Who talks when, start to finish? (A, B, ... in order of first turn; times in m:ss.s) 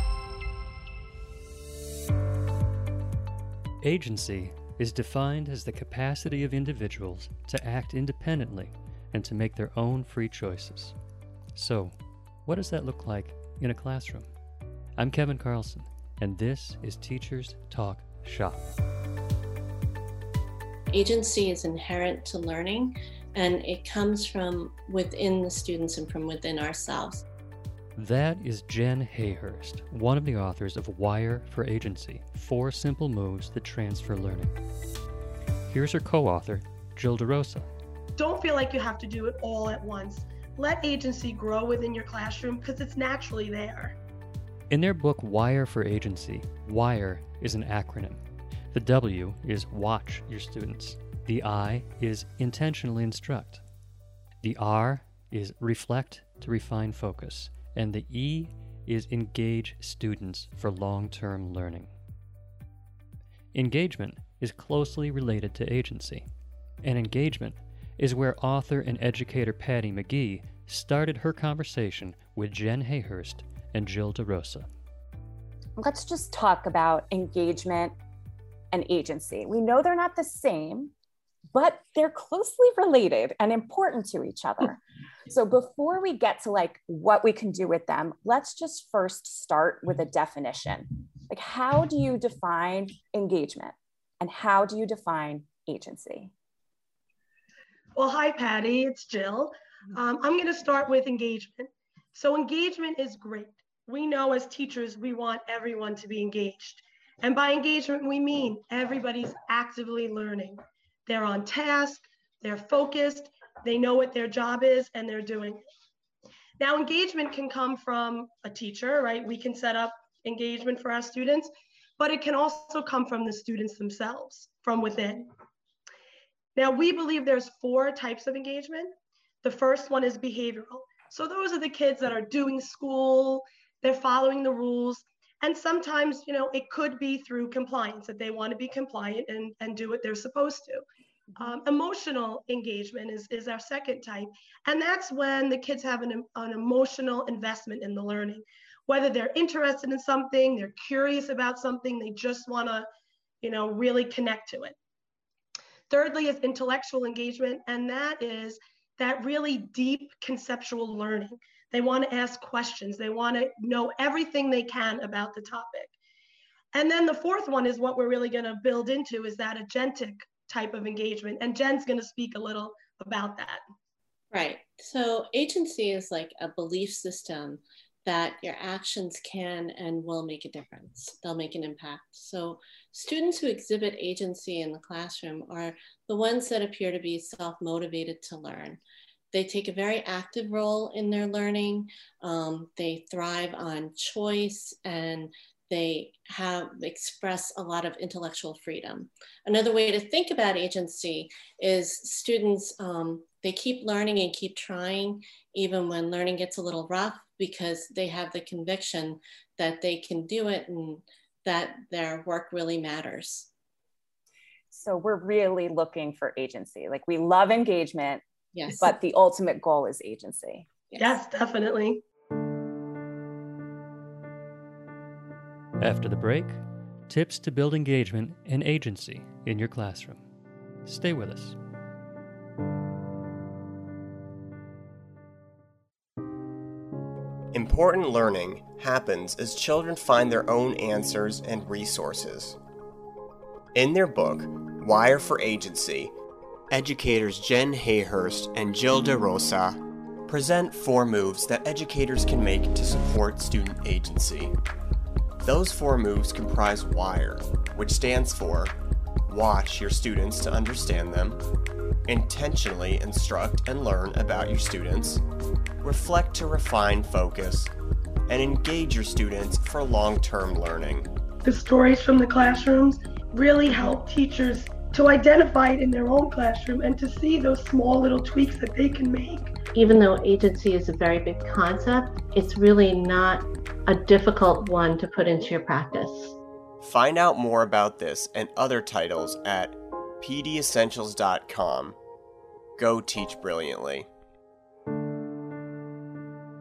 0:03.8-0:11.0 A
0:11.6-0:14.3 A
0:15.0-0:18.7 A
0:20.9-0:27.2 B
0:28.0-0:34.5 A
0:35.7-0:37.7 A
0:38.2-0:44.0 C
0:44.7-0:53.6 A
0:54.4-1:01.9 A
1:03.5-1:06.3 A
1:06.8-1:14.7 A
1:15.8-1:18.0 D
1:18.7-1:20.9 D
1:21.5-1:36.3 D
1:37.9-1:55.6 C
1:56.6-2:05.3 C
2:06.6-2:08.9 C
2:09.4-2:20.8 C
2:21.4-2:32.9 C
2:33.4-2:34.8 C
2:35.9-2:45.9 C
2:46.7-2:53.6 C
2:54.3-3:08.8 B
3:09.3-3:33.5 B
3:34.7-3:40.7 D
3:38.5-3:39.0 B
3:40.9-3:41.2 B
3:41.0-3:42.0 C
3:45.8-3:50.2 A
3:50.9-3:51.6 A
3:57.5-4:02.6 E
4:03.7-4:06.1 E
4:06.7-4:14.5 E
4:15.4-4:18.7 E
4:19.3-4:21.4 E
4:22.1-4:25.2 E
4:25.8-4:27.7 E
4:28.3-4:31.1 E
4:31.4-4:39.5 C
4:39.7-4:46.4 B
4:46.8-4:52.0 E
4:52.8-4:54.1 E